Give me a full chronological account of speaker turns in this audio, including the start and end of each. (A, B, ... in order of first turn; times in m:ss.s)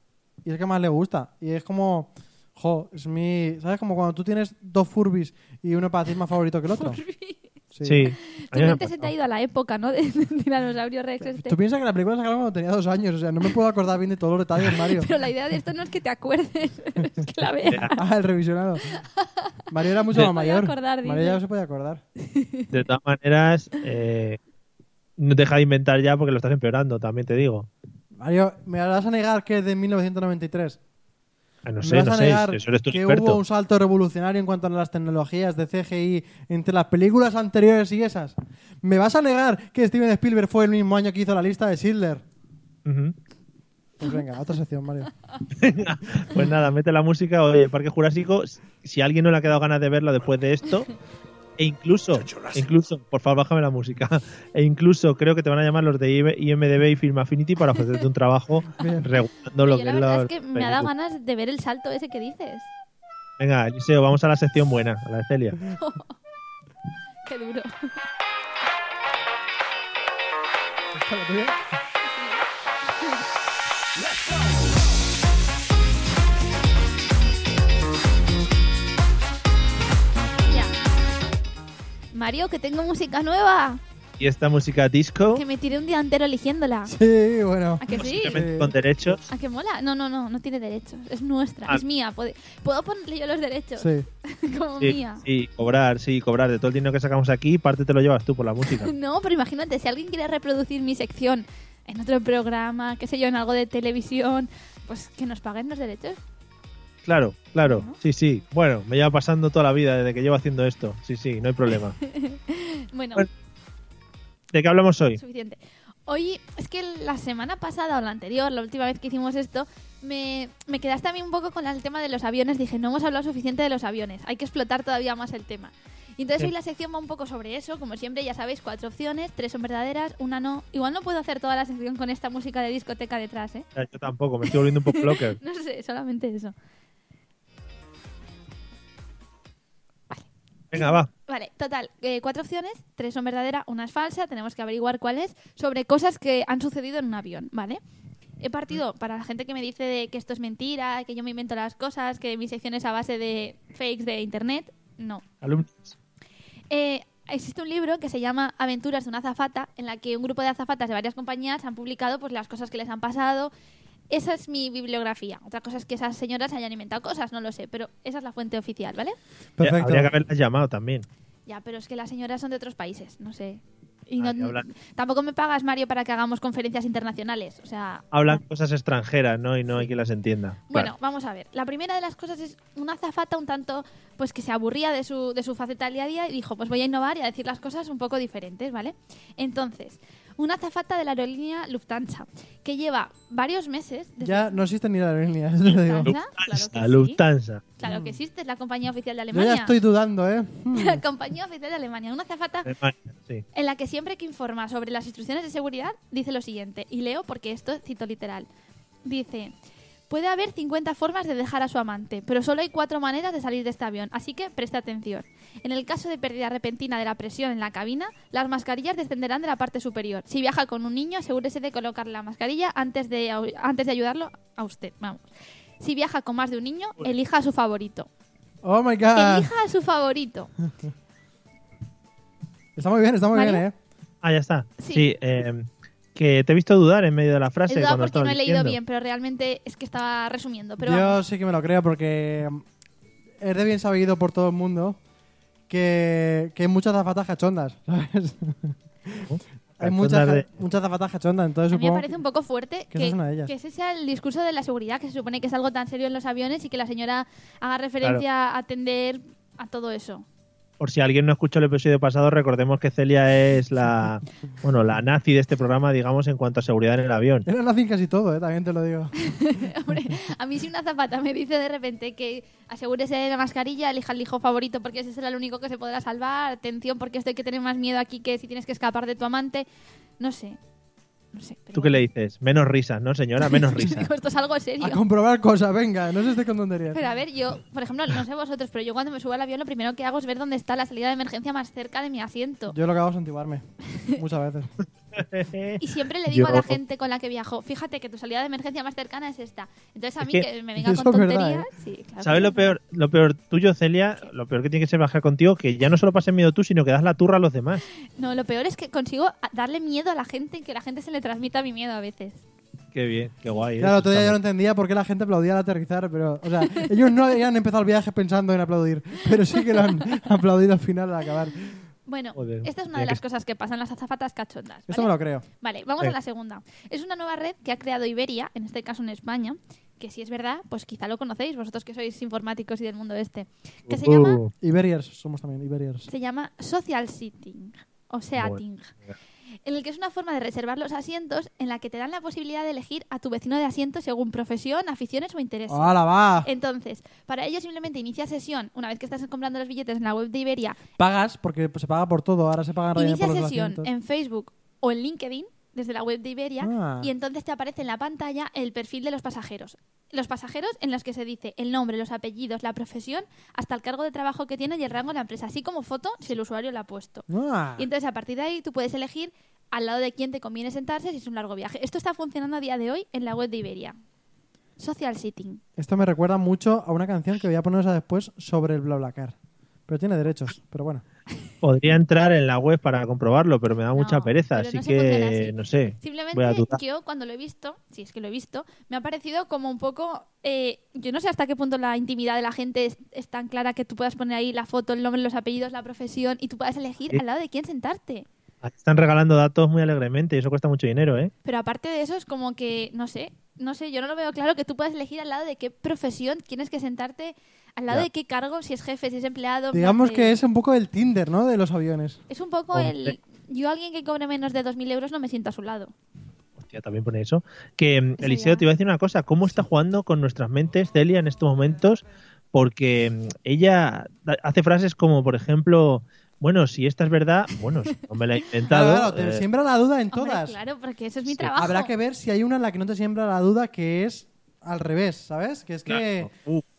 0:00.4-0:07.0 A
0:06.7-0:07.4 B
0:07.7-0:08.1 A
0:07.8-0:09.1 C
0:08.0-0:11.6 B
0:11.2-0:15.1 A
0:14.9-0:18.0 B
0:18.0-0:18.9 A
0:18.9-0:19.5 B
0:19.7-0:22.0 A
0:20.1-0:21.4 B
0:22.2-0:22.7 B
0:22.7-0:24.4 C
0:25.2-0:27.7 C
0:28.2-0:30.8 A
0:31.6-0:33.4 C
0:31.8-0:42.2 A
0:42.8-0:43.1 C
0:44.0-0:45.1 A
0:45.6-0:50.9 C
0:51.6-1:00.9 C
0:58.8-0:59.1 A
0:59.6-1:02.7 B
1:03.4-1:05.6 C
1:05.8-1:06.1 B
1:07.2-1:07.9 B
1:10.9-1:11.6 A
1:12.0-1:12.5 B
1:13.0-1:13.2 B
1:22.1-1:23.8 B
1:24.2-1:25.4 C
1:25.3-1:26.9 B
1:26.8-1:28.7 A
1:27.8-1:28.4 B
1:27.9-1:29.2 C
1:29.3-1:35.2 B
1:33.8-1:34.1 A
1:34.8-1:38.9 C
1:38.7-1:46.2 B
1:47.0-1:52.0 C
1:47.6-1:48.0 B
1:52.1-1:53.3 B
1:54.5-1:55.2 C
1:55.2-2:13.6 B
2:13.8-2:15.4 C
2:14.5-2:16.5 B
2:20.1-2:27.8 B
2:20.7-2:21.1 C
2:28.4-2:35.2 B
2:35.4-2:35.9 C
2:36.7-2:43.5 B
2:44.1-2:49.2 B
2:49.6-2:50.1 A
2:49.6-2:51.0 C
2:51.5-2:58.4 B
2:54.2-2:54.6 C
2:58.1-3:00.9 C
3:00.7-3:14.6 B
3:14.2-3:16.1 A
3:15.7-3:17.2 B
3:16.0-3:17.6 C
3:17.8-3:19.7 B
3:17.8-3:18.2 A
3:19.3-3:21.0 A
3:20.7-3:22.7 B
3:22.6-3:23.4 C
3:23.5-3:28.5 B
3:29.0-3:29.5 B
3:30.1-3:45.3 B
3:45.8-3:48.1 B
3:48.6-3:49.5 A
3:49.1-3:50.5 B
3:52.8-3:53.7 A
3:53.3-3:53.6 B
3:54.2-3:58.8 C
3:54.8-3:55.1 B
3:57.7-4:01.2 B
4:00.8-4:02.6 A
4:03.4-4:05.0 A
4:05.7-4:12.1 A
4:09.2-4:10.4 C
4:11.7-4:20.2 B
4:12.9-4:13.5 A
4:20.8-4:27.4 C
4:27.4-4:29.1 A
4:29.2-4:39.7 B
4:40.2-4:40.6 B
4:41.3-4:42.0 B
4:41.7-4:44.1 C
4:43.4-4:45.0 B
4:44.8-4:47.0 A
4:46.9-4:52.7 B
4:52.7-4:54.7 A
4:55.1-4:56.8 C
4:55.8-5:02.8 B
5:00.8-5:01.7 A
5:02.2-5:07.8 C
5:08.2-5:12.4 B
5:12.9-5:14.4 C
5:13.8-5:21.8 A
5:22.0-5:34.4 B
5:22.4-5:23.2 C
5:24.9-5:25.4 A
5:33.9-5:34.5 C
5:34.6-5:36.1 A
5:36.1-5:38.9 B
5:38.4-5:39.1 C
5:39.6-5:50.8 B
5:45.7-5:46.5 A
5:51.0-5:53.9 A
5:52.9-6:07.2 B
5:56.6-5:57.1 A
6:07.3-6:07.9 A
6:07.8-6:14.0 B
6:14.8-6:15.6 B
6:15.8-6:19.4 A
6:19.9-6:21.0 A
6:21.6-6:26.8 C
6:23.9-6:38.3 B
6:38.6-6:41.3 C
6:41.4-6:50.4 B
6:49.7-6:52.2 A
6:52.3-6:55.9 B
6:52.7-6:53.1 C
6:56.6-7:09.4 C
6:58.2-6:58.6 B
7:08.7-7:10.6 A
7:10.1-7:11.9 B
7:11.3-7:11.5 C
7:11.6-7:16.3 A
7:15.9-7:16.6 C